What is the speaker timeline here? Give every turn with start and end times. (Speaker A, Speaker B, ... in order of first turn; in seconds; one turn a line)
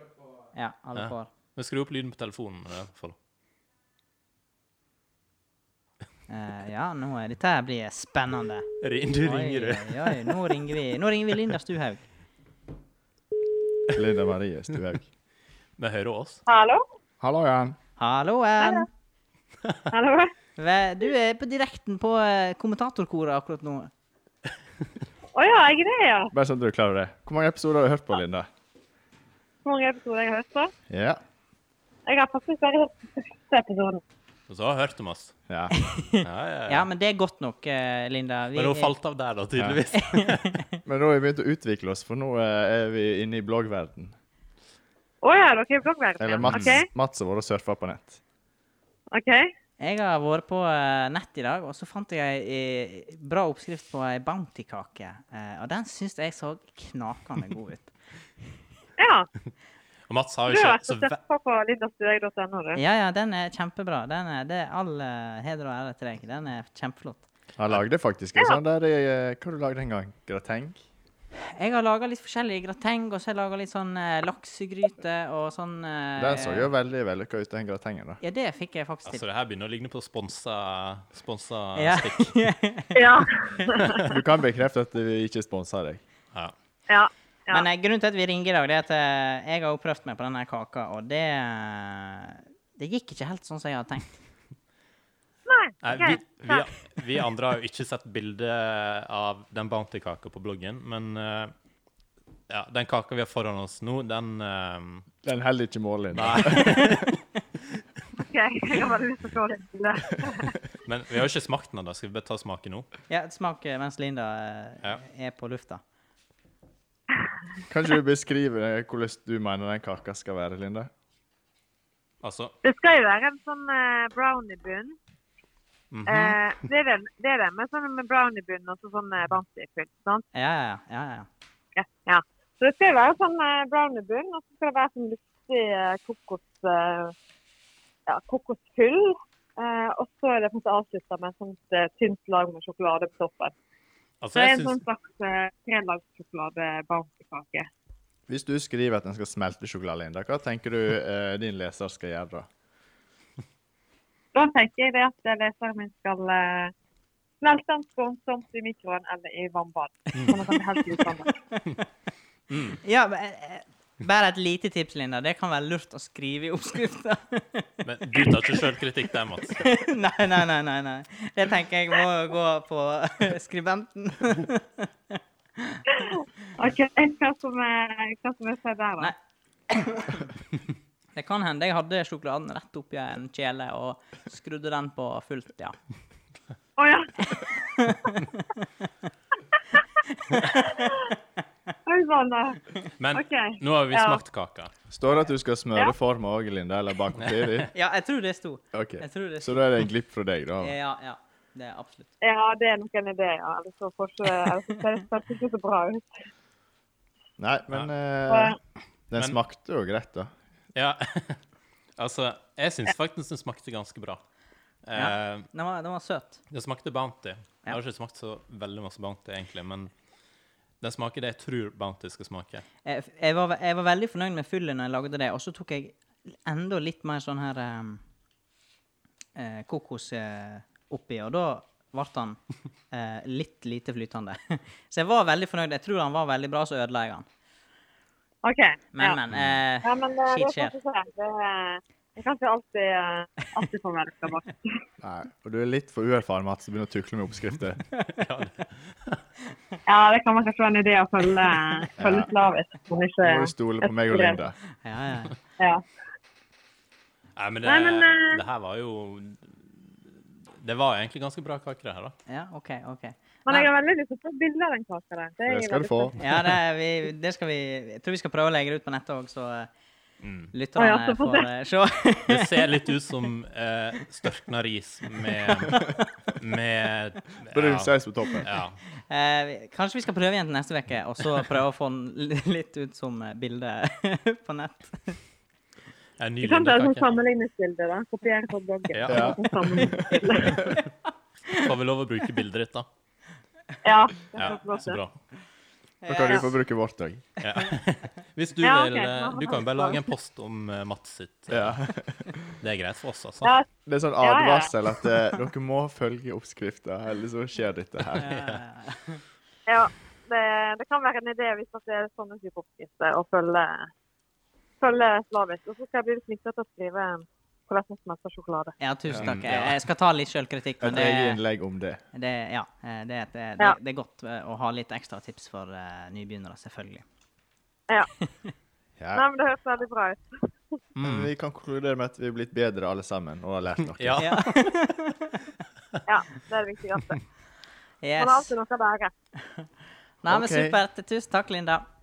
Speaker A: 0.5-1.3
Speaker B: 1.0-3.2
Speaker A: 6.3-8.7
Speaker B: 8.8-10.6
Speaker A: 9.2-12.0
Speaker C: 13.9-15.1
Speaker B: 15.8-16.4
Speaker D: 16.5-16.8
Speaker C: 17.2-17.8
Speaker A: 18.0-18.9
Speaker D: 18.6-18.9
Speaker D: 19.9-20.3
Speaker A: 20.6-23.9
Speaker D: 25.4-26.3
Speaker C: 26.3-28.5
Speaker D: 29.6-30.7
Speaker C: 30.9-31.2
Speaker D: 32.1-34.0
Speaker B: 34.5-35.4
Speaker C: 35.5-35.7
Speaker A: 35.7-38.9
Speaker B: 36.2-36.9
Speaker B: 38.5-40.6
Speaker A: 40.0-40.6
Speaker C: 40.9-44.1
Speaker D: 45.2-46.9
Speaker C: 46.2-48.2
Speaker B: 46.4-46.8
Speaker D: 49.1-49.5
Speaker A: 49.8-57.9
Speaker D: 59.0-59.3
Speaker B: 60.1-61.1
Speaker D: 60.5-62.8
Speaker A: 62.8-67.2
Speaker C: 67.6-70.8
Speaker A: 71.5-76.7
Speaker C: 76.2-78.2
Speaker A: 78.2-79.2
Speaker B: 79.0-82.4
Speaker A: 81.8-83.2
Speaker D: 82.9-84.2
Speaker C: 84.0-86.0
Speaker D: 86.9-87.7
Speaker A: 87.5-94.2
Speaker D: 95.5-96.7
Speaker B: 95.8-101.5
Speaker B: 102.5-105.1
Speaker C: 105.2-106.9
Speaker B: 106.1-107.2
Speaker A: 106.5-107.1
Speaker D: 108.2-110.5
Speaker B: 110.8-112.9
Speaker A: 113.1-115.8
Speaker C: 117.7-120.9
Speaker B: 122.2-122.5
Speaker D: 122.6-125.0
Speaker B: 125.9-126.4
Speaker D: 126.1-130.2
Speaker A: 130.3-131.3
Speaker D: 131.8-137.1
Speaker D: 138.1-143.5
Speaker B: 144.2-144.8
Speaker D: 144.3-147.7
Speaker C: 148.3-152.5
Speaker D: 154.3-156.7
Speaker D: 157.4-161.3
Speaker B: 162.5-162.8
Speaker A: 162.8-168.6
Speaker B: 167.8-169.7
Speaker A: 169.5-175.8
Speaker D: 176.6-179.1
Speaker A: 179.7-180.3
Speaker A: 181.2-185.8
Speaker D: 186.8-187.5
Speaker A: 187.4-188.6
Speaker A: 190.2-191.0
Speaker D: 190.7-191.0
Speaker D: 191.9-194.2
Speaker B: 193.0-194.7
Speaker C: 194.9-197.7
Speaker B: 197.2-197.6
Speaker A: 197.7-199.7
Speaker C: 198.7-200.8
Speaker A: 200.6-202.1
Speaker D: 202.2-206.1
Speaker C: 207.4-208.6
Speaker D: 208.3-208.6
Speaker C: 209.1-210.3
Speaker B: 210.7-211.4
Speaker B: 212.0-214.2
Speaker B: 214.8-215.5
Speaker A: 214.9-216.4
Speaker B: 216.5-219.9
Speaker B: 220.8-222.7
Speaker A: 222.8-228.0
Speaker A: 229.3-232.4
Speaker A: 232.9-237.3
Speaker D: 238.4-239.2
Speaker A: 238.9-240.7
Speaker D: 239.8-244.8
Speaker C: 245.0-247.8
Speaker B: 248.1-249.2
Speaker D: 249.9-254.4
Speaker C: 252.0-252.3
Speaker C: 253.2-254.6
Speaker A: 254.8-255.4
Speaker D: 255.6-255.8
Speaker B: 257.4-262.1
Speaker D: 257.6-258.4
Speaker A: 262.3-263.7
Speaker D: 263.5-266.2
Speaker C: 265.5-266.2
Speaker A: 266.2-269.7
Speaker B: 270.2-270.5
Speaker A: 270.5-272.6
Speaker D: 270.8-271.5
Speaker B: 272.3-278.8
Speaker C: 277.5-278.5
Speaker A: 279.1-285.2
Speaker B: 286.2-287.1
Speaker D: 286.4-290.7
Speaker B: 288.9-289.5
Speaker C: 289.1-290.6
Speaker B: 291.5-292.9
Speaker D: 293.8-295.0
Speaker B: 294.3-295.2
Speaker A: 296.0-296.5
Speaker C: 296.1-297.3
Speaker B: 297.4-301.8
Speaker D: 298.6-300.0
Speaker C: 301.5-302.4
Speaker B: 302.6-303.5
Speaker D: 303.4-303.7
Speaker C: 303.9-308.4
Speaker D: 304.2-304.7
Speaker B: 308.1-308.6
Speaker A: 308.2-309.2
Speaker D: 309.7-313.9
Speaker D: 314.8-318.8
Speaker A: 318.8-321.4
Speaker B: 319.1-319.8
Speaker C: 320.8-322.0
Speaker A: 322.1-327.0
Speaker A: 328.2-328.5
Speaker C: 329.0-329.2
Speaker D: 329.1-330.5
Speaker B: 331.0-331.3
Speaker C: 331.0-334.3
Speaker B: 333.9-334.8
Speaker A: 334.2-335.5
Speaker D: 336.1-337.2
Speaker A: 338.0-338.5
Speaker D: 338.2-339.1
Speaker A: 340.2-341.9
Speaker C: 340.3-340.8